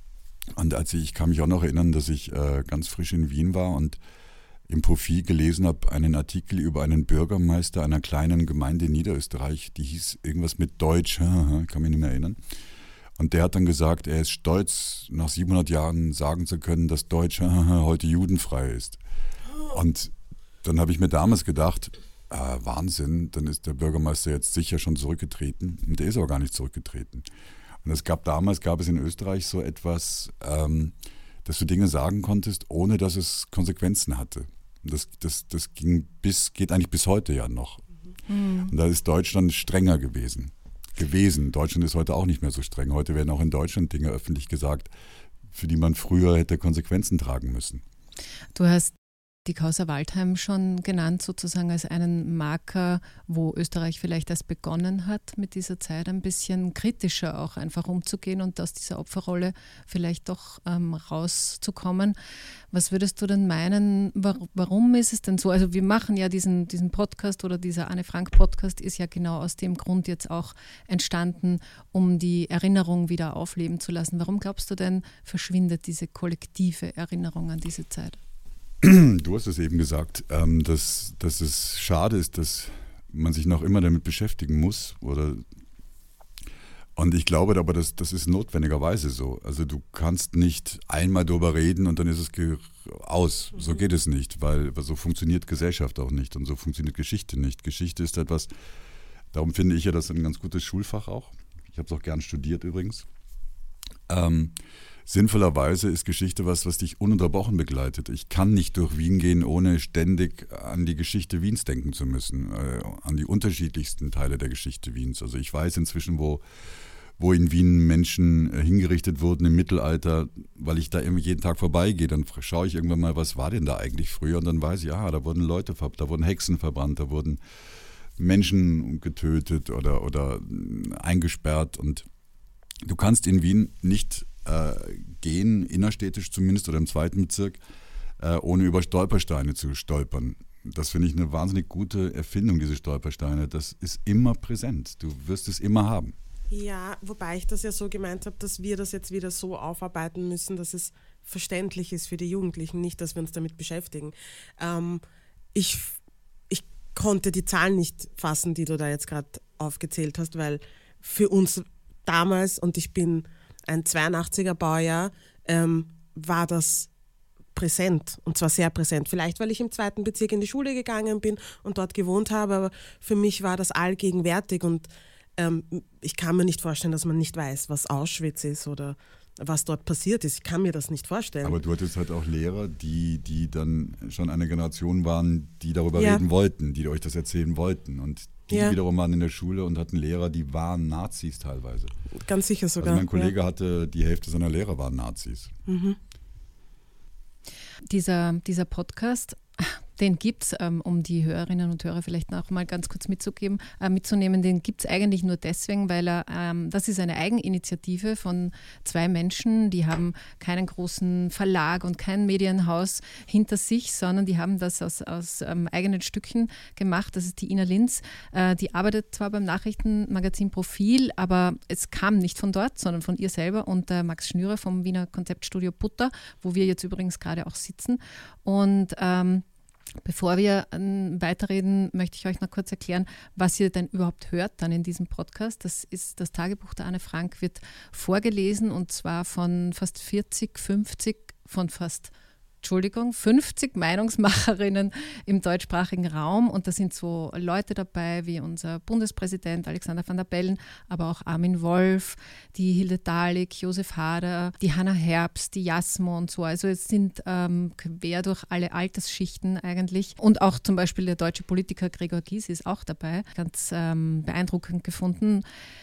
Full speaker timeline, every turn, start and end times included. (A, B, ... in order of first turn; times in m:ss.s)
0:00.6-0:04.0 A
0:04.7-0:12.4 A
0:13.2-0:19.0 A
0:19.7-0:27.2 A
0:27.8-0:37.8 A
0:38.3-0:38.7 B
0:38.7-0:44.9 A
0:45.5-0:47.8 A
0:48.5-0:48.9 B
0:49.4-1:02.2 B
1:02.7-1:18.2 B
1:18.8-1:25.4 A
1:27.0-1:38.5 A
1:39.3-1:43.0 A
1:44.1-1:56.4 A
1:57.2-2:07.4 A
2:08.2-2:12.0 A
2:12.8-2:17.6 A
2:18.2-2:26.1 A
2:26.5-2:35.0 C
2:35.5-2:36.0 C
2:36.5-2:46.9 C
2:47.6-3:01.6 C
3:01.4-3:11.9 A
3:06.0-3:06.2 C
3:08.5-3:08.8 C
3:12.2-3:13.3 C
3:12.8-3:15.5 A
3:15.7-3:16.0 C
3:17.9-3:49.4 B
3:50.0-4:25.4 B